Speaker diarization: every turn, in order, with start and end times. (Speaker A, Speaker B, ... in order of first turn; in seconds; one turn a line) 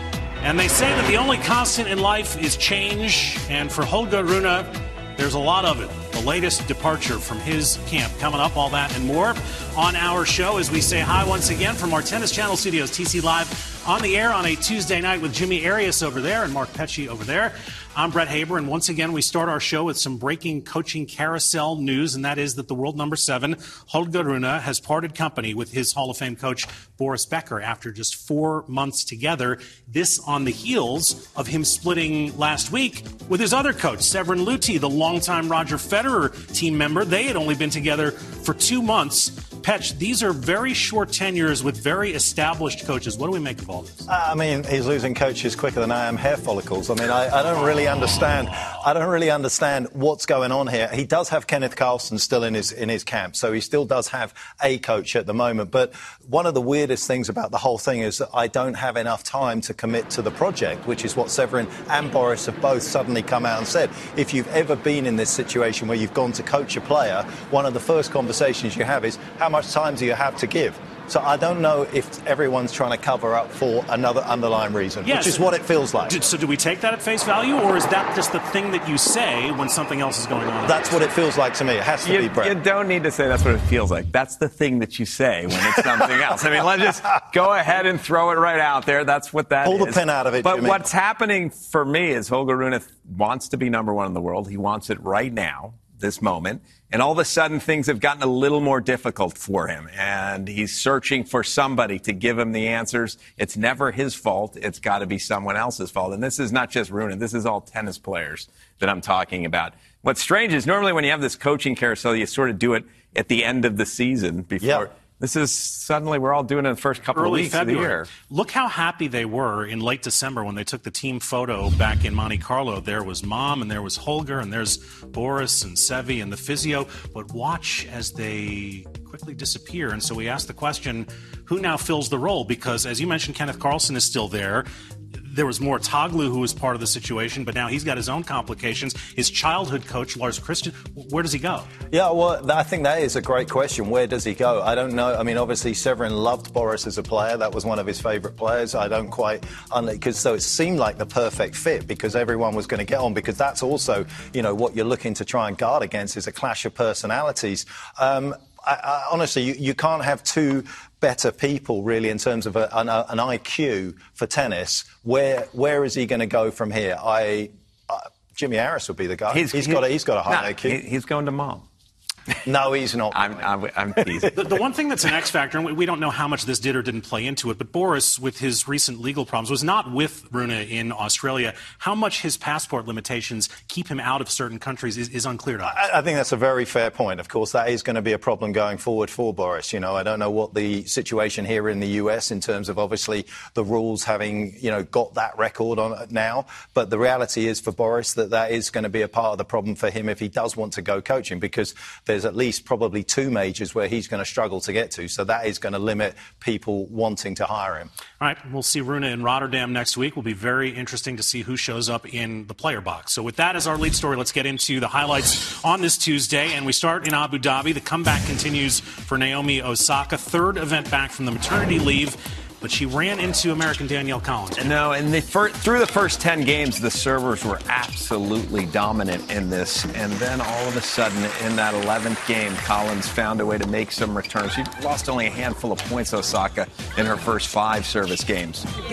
Speaker A: 0.4-44.1
Speaker B: 44.1-76.2
Speaker A: 75.0-75.5
Speaker A: 76.0-81.1
Speaker B: 80.6-82.5
Speaker C: 82.0-118.1
Speaker B: 89.6-90.9
Speaker B: 114.6-114.9
Speaker A: 117.1-141.7
Speaker B: 141.9-170.8
Speaker C: 169.3-171.6
Speaker B: 172.4-173.4
Speaker C: 173.1-174.4
Speaker A: 174.3-185.8
Speaker B: 185.6-207.9
Speaker A: 208.2-224.7
Speaker C: 224.6-238.7